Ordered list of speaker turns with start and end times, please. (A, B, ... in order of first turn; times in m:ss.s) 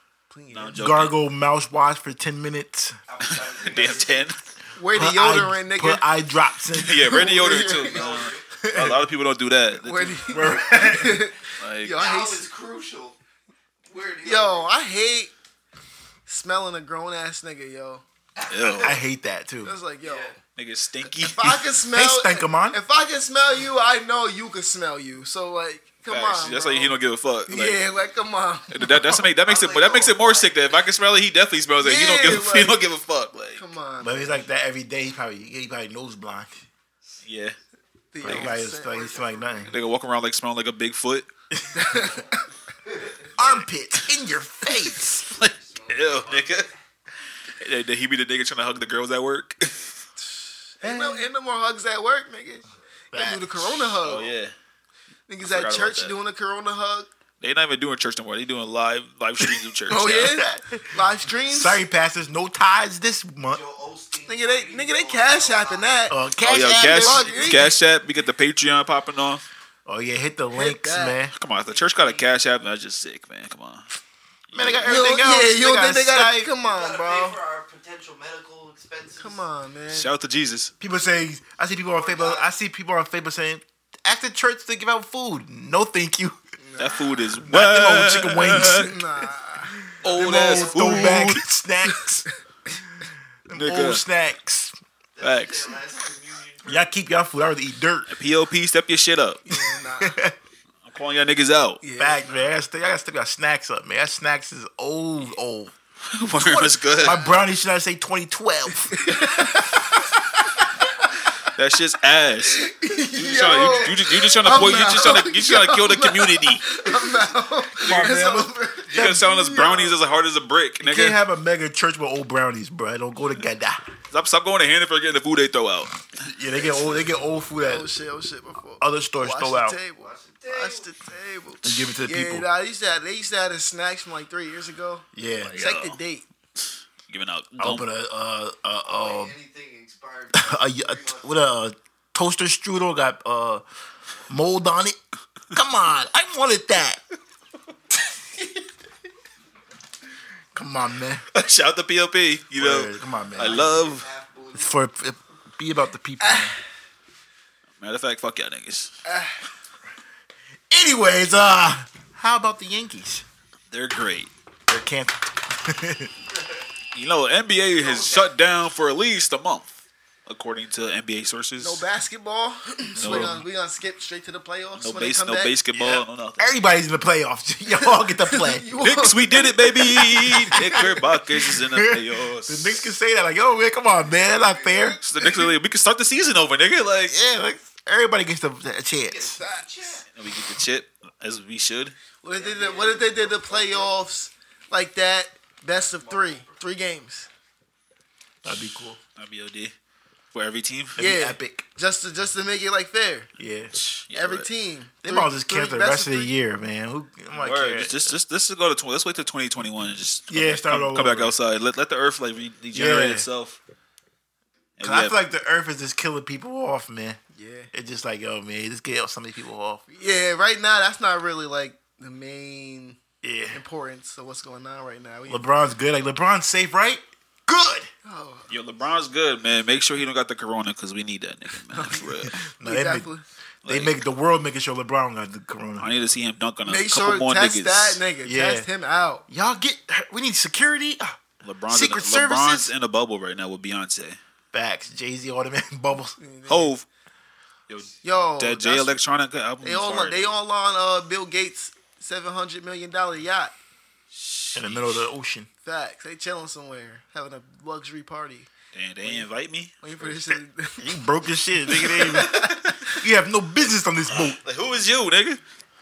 0:00.3-0:00.9 A
0:00.5-0:01.1 B
0:00.7-0:03.0 C
0:03.1-0:04.3 D
0:03.2-0:04.4 B
0:04.8-0:06.1 A
0:04.9-0:07.2 C
0:06.7-0:10.3 B
0:06.9-0:08.1 A
0:07.5-0:08.6 D
0:08.6-0:09.0 C
0:09.8-0:12.4 A
0:10.3-0:11.3 C
0:11.6-0:12.0 B
0:11.9-0:13.2 D
0:13.9-0:14.7 D
0:14.2-0:15.3 A
0:16.3-0:18.0 A
0:18.4-0:19.0 D
0:18.5-0:19.0 B
0:18.8-0:19.8 C
0:19.6-0:20.4 A
0:20.0-0:20.4 D
0:20.6-0:21.6 B
0:21.2-0:27.0 A
0:21.9-0:22.8 C
0:26.1-0:27.8 B
0:27.5-0:29.2 A
0:28.7-0:33.6 B
0:29.3-0:30.8 D
0:31.8-0:32.8 A
0:33.6-0:34.4 A
0:34.0-0:36.6 C
0:37.2-0:37.6 B
0:38.1-0:39.7 A
0:38.2-0:39.7 C
0:38.2-0:38.5 B
0:39.7-0:41.3 B
0:41.5-0:42.2 C
0:41.7-0:42.4 A
0:43.4-0:45.3 C
0:45.1-0:46.7 B
0:45.6-0:46.6 D
0:47.6-0:49.8 B
0:50.8-0:54.3 A
0:50.8-0:51.2 B
0:53.1-0:54.0 C
0:54.0-0:54.5 B
0:55.3-0:57.1 A
0:55.4-0:56.1 B
0:57.4-1:00.4 B
0:59.9-1:01.8 A
1:00.1-1:03.6 C
1:03.5-1:06.0 D
1:04.3-1:06.2 A
1:06.1-1:07.3 C
1:06.4-1:09.4 B
1:06.8-1:07.8 A
1:09.8-1:11.3 C
1:10.5-1:11.2 A
1:11.3-1:13.8 B
1:11.7-1:12.2 D
1:14.5-1:15.0 B
1:14.5-1:16.5 C
1:14.8-1:17.4 A
1:16.6-1:19.4 D
1:19.2-1:20.1 A
1:19.9-1:20.7 B
1:20.8-1:26.4 C
1:21.9-1:22.5 D
1:26.6-1:27.1 A
1:26.8-1:28.9 B
1:27.4-1:29.0 C
1:28.6-1:29.9 A
1:30.0-1:32.2 C
1:30.0-1:31.3 D
1:30.0-1:31.4 B
1:33.0-1:34.7 C
1:33.5-1:34.0 B
1:35.2-1:36.9 D
1:35.2-1:35.8 B
1:36.7-1:38.1 C
1:38.1-1:39.4 B
1:39.4-1:40.2 A
1:40.0-1:40.4 C
1:40.8-1:41.8 B
1:41.8-1:42.2 A
1:42.0-1:45.7 C
1:46.1-1:47.2 B
1:46.4-1:50.5 C
1:48.8-1:50.0 A
1:51.4-1:56.8 B
1:52.5-1:59.9 A
1:57.8-1:59.0 C
1:57.8-1:58.2 B
1:58.9-2:01.2 B
2:00.8-2:03.9 C
2:04.1-2:06.0 B
2:06.2-2:07.9 C
2:07.6-2:16.2 A
2:08.8-2:09.8 C
2:10.0-2:10.9 D
2:11.6-2:12.4 C
2:15.1-2:15.6 C
2:15.4-2:16.0 B
2:17.1-2:17.8 B
2:17.6-2:19.3 C
2:18.8-2:21.3 D
2:20.3-2:23.6 C
2:24.3-2:25.0 C
2:25.5-2:27.0 C
2:30.5-2:31.2 C
2:31.3-2:34.1 B
2:32.6-2:33.7 C
2:33.4-2:34.7 D
2:34.5-2:36.6 C
2:36.2-2:36.6 A
2:37.8-2:38.9 B
2:39.0-2:39.4 A
2:40.7-2:43.2 C
2:43.7-2:44.3 B
2:44.7-2:46.1 C
2:46.9-2:49.7 B
2:47.8-2:48.3 D
2:50.2-2:51.8 B
2:51.6-2:55.6 A
2:53.0-2:53.4 B
2:53.0-2:53.4 C
2:54.8-2:56.5 B
2:55.7-2:58.7 C
2:57.8-3:01.1 A
2:58.8-3:02.9 B
3:00.2-3:05.0 C
3:04.5-3:05.5 A
3:05.0-3:07.2 B
3:07.1-3:09.4 C
3:09.0-3:10.1 D
3:09.4-3:10.0 A
3:10.1-3:11.9 B
3:12.2-3:17.3 A
3:12.3-3:14.0 D
3:15.7-3:16.6 D
3:18.4-3:19.0 C
3:19.2-3:19.7 B
3:20.3-3:21.0 B
3:21.0-3:21.6 C
3:21.0-3:23.3 A
3:23.4-3:23.8 C
3:23.8-3:24.5 B
3:24.1-3:26.3 A
3:25.0-3:28.1 C
3:27.3-3:33.6 B
3:30.3-3:31.3 C
3:32.7-3:33.3 C
3:34.8-3:35.1 B
3:34.8-3:37.2 C
3:37.3-3:37.7 A
3:37.7-3:39.8 C
3:39.9-3:43.0 A
3:43.2-3:43.6 C
3:43.5-3:45.5 A
3:45.3-3:47.9 C
3:48.0-3:48.5 A
3:48.5-3:52.4 B
3:51.7-3:52.1 A
3:52.2-3:53.1 C
3:52.6-3:53.2 A
3:53.6-3:54.0 B
3:53.6-3:55.9 C
3:55.8-3:58.0 B
3:56.6-3:59.2 A
3:58.2-3:58.7 C
3:59.3-4:02.7 C
4:01.4-4:04.2 B
4:04.5-4:06.2 C
4:06.2-4:06.7 A
4:06.5-4:06.8 B
4:07.7-4:10.3 B
4:08.0-4:09.0 A
4:09.6-4:13.5 A
4:14.1-4:15.0 B
4:14.5-4:15.5 C
4:15.6-4:18.5 A
4:18.7-4:20.4 B
4:19.8-4:21.0 A
4:20.8-4:24.4 C
4:21.7-4:23.0 A
4:21.7-4:22.7 B
4:24.1-4:25.4 B